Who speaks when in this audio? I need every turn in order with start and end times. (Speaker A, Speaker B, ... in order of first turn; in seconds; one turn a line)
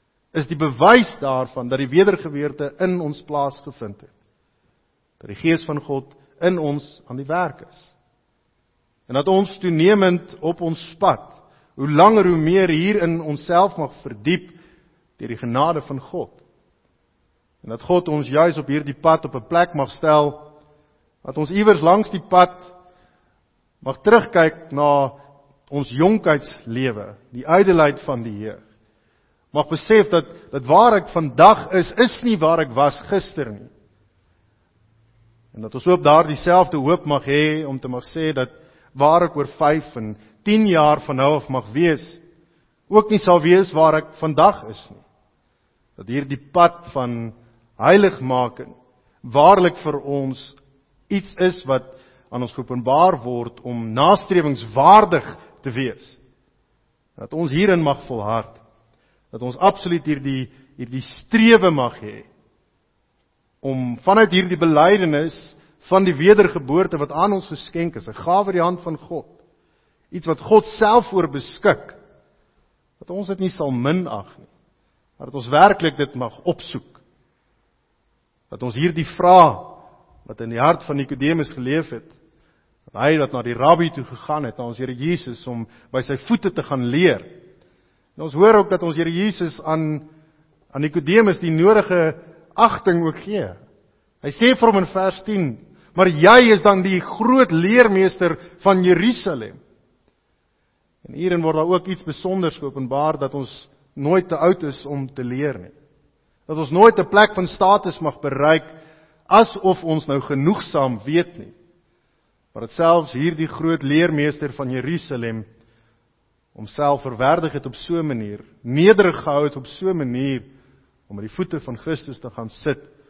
Speaker A: 0.3-4.1
Speaker A: 5.2-7.9
Speaker A: 9.1-14.6
Speaker A: 15.2-16.4
Speaker A: 17.6-20.5
Speaker A: 21.2-22.7
Speaker A: 23.8-28.6
Speaker A: 29.5-33.7
Speaker A: 35.5-42.2
Speaker A: 42.9-45.0
Speaker A: 46.0-50.6
Speaker A: 51.1-56.2
Speaker A: 57.2-58.6
Speaker A: 59.3-62.3
Speaker A: 63.6-69.4
Speaker A: 70.1-72.0
Speaker A: 73.0-74.5
Speaker A: 75.2-77.0
Speaker A: 78.5-82.1
Speaker A: 82.9-87.3
Speaker A: 88.2-90.1
Speaker A: 90.7-93.6
Speaker A: 94.2-99.6
Speaker A: 101.0-105.7
Speaker A: 106.5-108.7
Speaker A: 109.3-111.5
Speaker A: 112.5-115.4
Speaker A: 116.5-120.5
Speaker A: 121.1-122.9